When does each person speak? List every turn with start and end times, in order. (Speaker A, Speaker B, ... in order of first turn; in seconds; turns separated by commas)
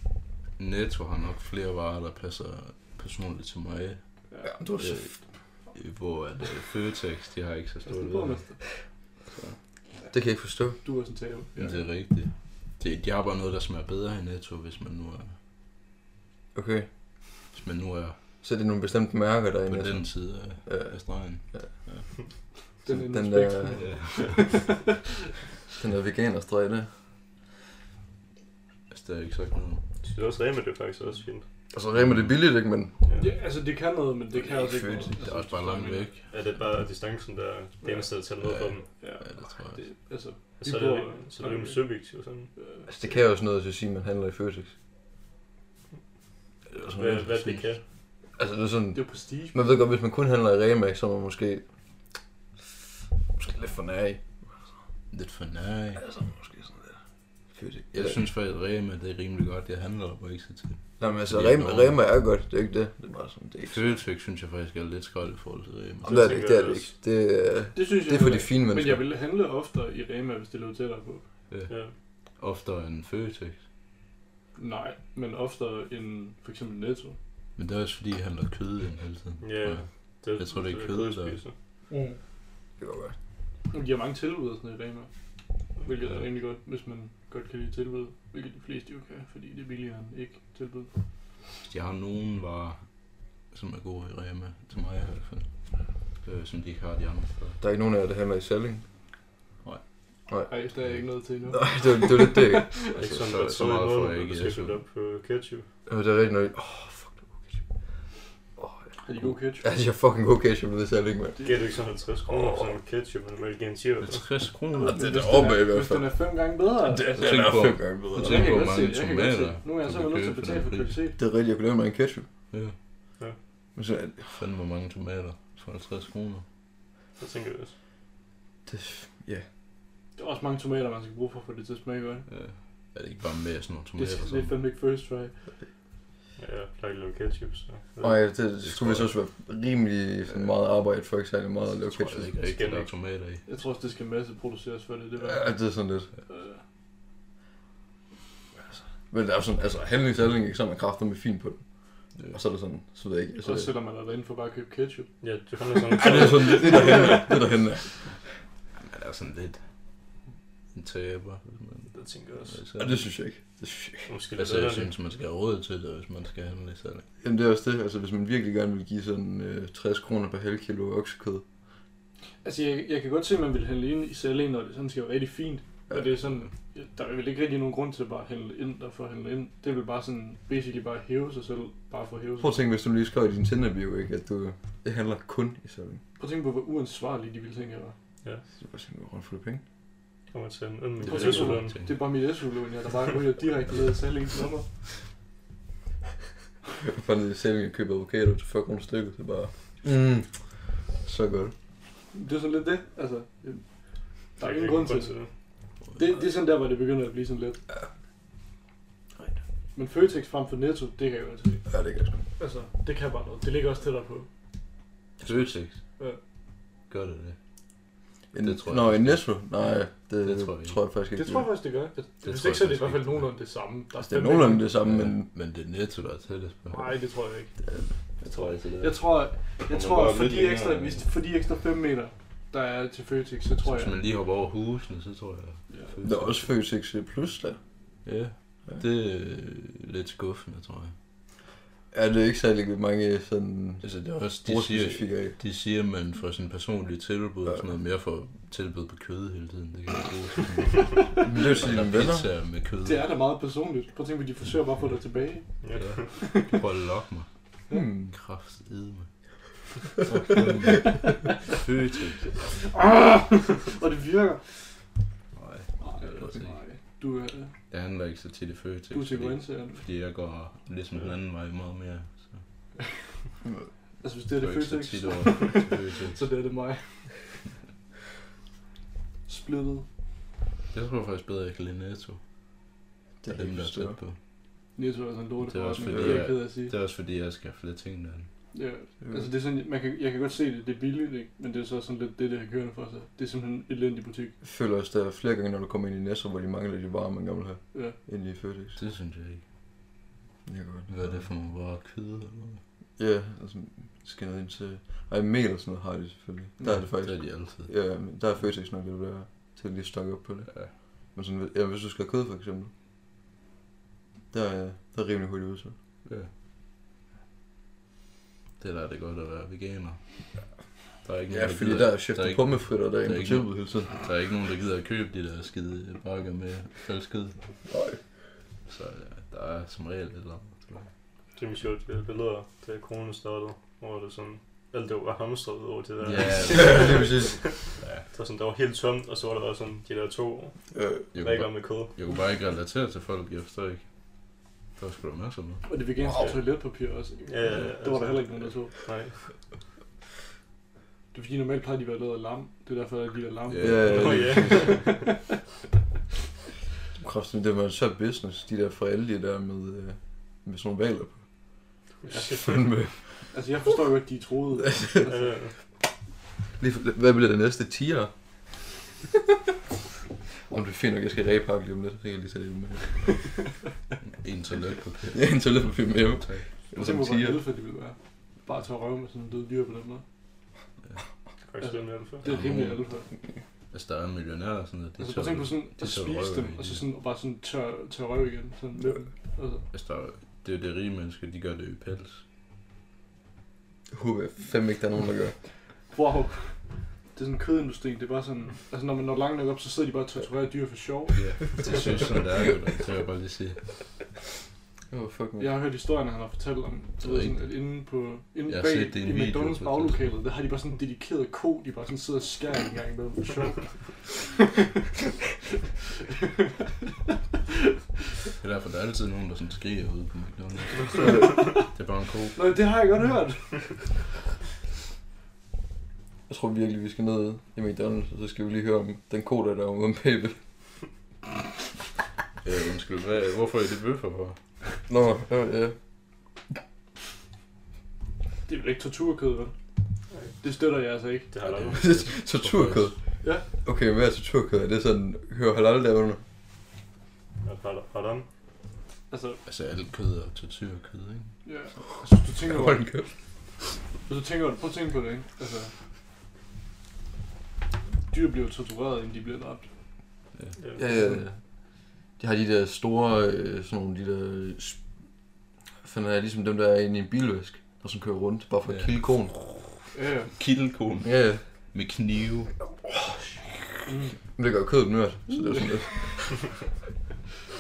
Speaker A: 0.6-4.3, Speaker B: 4.3-4.5, Speaker C: 4.4-5.2, Speaker A: 4.8-9.6, Speaker B: 7.8-8.7, Speaker C: 10.1-10.8, Speaker B: 10.8-11.9, Speaker A: 11.6-15.3, Speaker C: 16.5-16.9, Speaker A: 17.5-18.2, Speaker C: 18.4-21.7, Speaker A: 19.7-22.1, Speaker B: 22.8-24.9, Speaker C: 22.9-24.1, Speaker A: 23.7-24.7, Speaker C: 25.8-26.9, Speaker A: 28.9-29.8, Speaker D: 30.0-31.5, Speaker C: 31.7-33.0, Speaker A: 31.9-32.5, Speaker D: 33.0-33.3, Speaker B: 33.2-36.1, Speaker C: 34.4-35.2, Speaker A: 35.2-36.3, Speaker D: 36.3-38.9, Speaker B: 37.8-38.1, Speaker A: 38.4-39.9, Speaker B: 39.0-43.1, Speaker D: 40.6-42.5, Speaker C: 42.9-44.8, Speaker C: 46.7-47.7, Speaker D: 46.9-47.8, Speaker C: 48.3-51.6, Speaker B: 48.9-49.6, Speaker C: 53.3-54.5, Speaker A: 55.1-56.1, Speaker C: 56.0-58.2, Speaker A: 57.9-62.0, Speaker C: 61.0-64.0, Speaker A: 63.7-66.4, Speaker D: 66.0-66.9, Speaker C: 66.0-69.0, Speaker B: 67.7-71.3, Speaker A: 71.5-73.6, Speaker D: 71.7-71.9, Speaker B: 74.5-77.2, Speaker A: 77.5-81.4, Speaker D: 79.4-81.5, Speaker B: 81.9-82.2, Speaker C: 82.8-83.1, Speaker B: 83.7-90.9, Speaker A: 91.7-97.6, Speaker C: 97.6-98.8, Speaker C: 100.3-100.5, Speaker B: 100.5-103.0, Speaker C: 101.5-102.8, Speaker A: 102.9-104.8, Speaker D: 102.9-105.7, Speaker C: 105.8-111.7, Speaker B: 109.0-109.7, Speaker B: 111.3-111.7, Speaker D: 111.4-114.3, Speaker C: 112.3-112.6, Speaker A: 114.0-115.3, Speaker B: 114.8-117.2, Speaker C: 114.8-118.7, Speaker A: 117.1-121.0, Speaker B: 118.2-121.2, Speaker C: 121.2-122.3, Speaker A: 122.5-122.8, Speaker C: 123.7-124.4, Speaker A: 124.3-126.4, Speaker D: 127.2-127.7, Speaker C: 128.7-129.5, Speaker B: 130.2-132.3, Speaker A: 132.3-134.5, Speaker B: 133.9-135.5, Speaker D: 136.4-138.3, Speaker C: 138.0-142.4, Speaker A: 138.6-139.2, Speaker A: 141.9-143.4, Speaker D: 142.4-142.9, Speaker B: 143.4-146.6, Speaker C: 145.2-146.1, Speaker C: 149.1-153.7, Speaker B: 153.4-155.2, Speaker D: 155.2-157.1, Speaker B: 155.9-157.4, Speaker C: 155.9-158.2, Speaker A: 158.8-159.6, Speaker A: 160.7-163.0, Speaker B: 161.9-162.4, Speaker C: 162.8-164.1, Speaker D: 164.1-164.9, Speaker A: 164.3-167.1, Speaker C: 167.2-171.4, Speaker B: 172.4-182.6, Speaker C: 182.4-186.0, Speaker B: 186.2-187.9, Speaker C: 188.5-189.6, Speaker D: 190.3-191.9, Speaker A: 191.0-191.9, Speaker B: 191.0-194.7, Speaker C: 196.8-201.5, Speaker B: 202.1-207.6, Speaker D: 204.4-205.3, Speaker A: 205.8-206.1, Speaker B: 209.7-214.3, Speaker C: 211.7-212.2, Speaker C: 215.2-215.6, Speaker A: 215.2-215.8, Speaker A: 216.9-217.4, Speaker C: 218.3-221.5, Speaker A: 218.4-219.6, Speaker A: 220.2-220.8, Speaker B: 221.1-224.7, Speaker A: 222.2-223.3, Speaker C: 224.0-225.3, Speaker A: 224.8-226.9, Speaker B: 226.7-227.6, Speaker A: 228.2-231.1, Speaker B: 228.7-234.0, Speaker A: 233.6-236.4, Speaker C: 236.0-238.0, Speaker A: 238.0-240.9, Speaker C: 241.9-245.4, Speaker A: 243.8-253.1, Speaker C: 251.2-252.3, Speaker B: 252.8-256.6, Speaker D: 255.6-256.1, Speaker A: 255.7-257.3, Speaker C: 257.7-258.1, Speaker A: 258.1-259.1, Speaker A: 260.0-262.6, Speaker B: 262.5-264.9, Speaker A: 265.3-266.6, Speaker B: 265.8-267.6, Speaker A: 267.7-272.4, Speaker B: 268.9-269.8, Speaker B: 274.0-277.3, Speaker A: 274.4-276.3, Speaker B: 279.3-279.9, Speaker A: 280.7-282.2, Speaker C: 283.2-284.0, Speaker A: 283.3-284.2, Speaker B: 284.7-286.7, Speaker A: 285.4-288.3, Speaker C: 285.9-286.3, Speaker B: 288.5-294.4, Speaker C: 289.0-289.3, Speaker C: 294.4-298.8, Speaker A: 298.8-299.4, Speaker C: 300.4-301.3, Speaker A: 300.9-302.6, Speaker C: 303.0-312.7, Speaker A: 306.6-307.7, Speaker C: 314.3-315.7, Speaker A: 316.0-316.3, Speaker A: 318.6-320.5, Speaker A: 321.0-327.4, Speaker C: 321.3-323.9, Speaker C: 327.7-328.0, Speaker A: 328.6-330.9, Speaker D: 331.3-341.9, Speaker A: 336.0-337.2, Speaker C: 336.5-337.6, Speaker A: 337.8-338.1, Speaker C: 340.7-341.1, Speaker A: 341.1-345.7, Speaker B: 345.6-348.8, Speaker C: 346.0-346.3, Speaker D: 346.2-346.4, Speaker D: 347.2-349.2, Speaker B: 351.1-355.2, Speaker A: 353.5-354.7, Speaker C: 353.6-354.7, Speaker D: 353.9-355.0, Speaker C: 356.9-361.6, Speaker D: 362.0-362.6, Speaker B: 362.1-362.5, Speaker C: 362.3-363.3, Speaker B: 363.1-365.3, Speaker D: 365.1-365.6, Speaker C: 366.6-368.8, Speaker C: 370.5-373.4, Speaker A: 374.1-376.4, Speaker C: 375.1-377.4, Speaker B: 376.7-380.0, Speaker D: 381.4-382.3, Speaker B: 381.6-383.1, Speaker A: 382.2-382.9, Speaker A: 383.7-386.8, Speaker B: 385.0-389.6, Speaker A: 389.7-392.2, Speaker C: 393.9-395.4, Speaker B: 395.9-402.1, Speaker A: 401.1-403.9, Speaker C: 404.9-405.5, Speaker B: 405.4-414.3, Speaker A: 407.0-407.7, Speaker A: 408.5-410.0, Speaker A: 418.4-422.6, Speaker C: 421.0-421.4, Speaker B: 421.0-421.7, Speaker B: 422.3-424.0, Speaker C: 426.3-430.8, Speaker A: 432.4-434.6, Speaker C: 434.9-435.8, Speaker B: 438.5-439.6, Speaker D: 440.1-440.4, Speaker B: 440.4-441.3, Speaker D: 441.3-441.9, Speaker A: 441.4-442.9, Speaker C: 441.7-446.2, Speaker B: 443.2-443.4, Speaker D: 447.4-448.3, Speaker B: 449.1-449.4, Speaker A: 449.4-451.5, Speaker B: 451.4-452.9, Speaker C: 452.5-453.1, Speaker B: 454.0-455.7, Speaker B: 458.1-459.7, Speaker D: 460.6-460.9, Speaker C: 460.8-465.1, Speaker B: 460.9-461.2, Speaker C: 465.8-469.4, Speaker A: 468.6-469.6, Speaker B: 469.9-470.3, Speaker A: 470.3-472.8, Speaker C: 471.0-471.4, Speaker B: 473.9-474.2, Speaker C: 474.3-476.6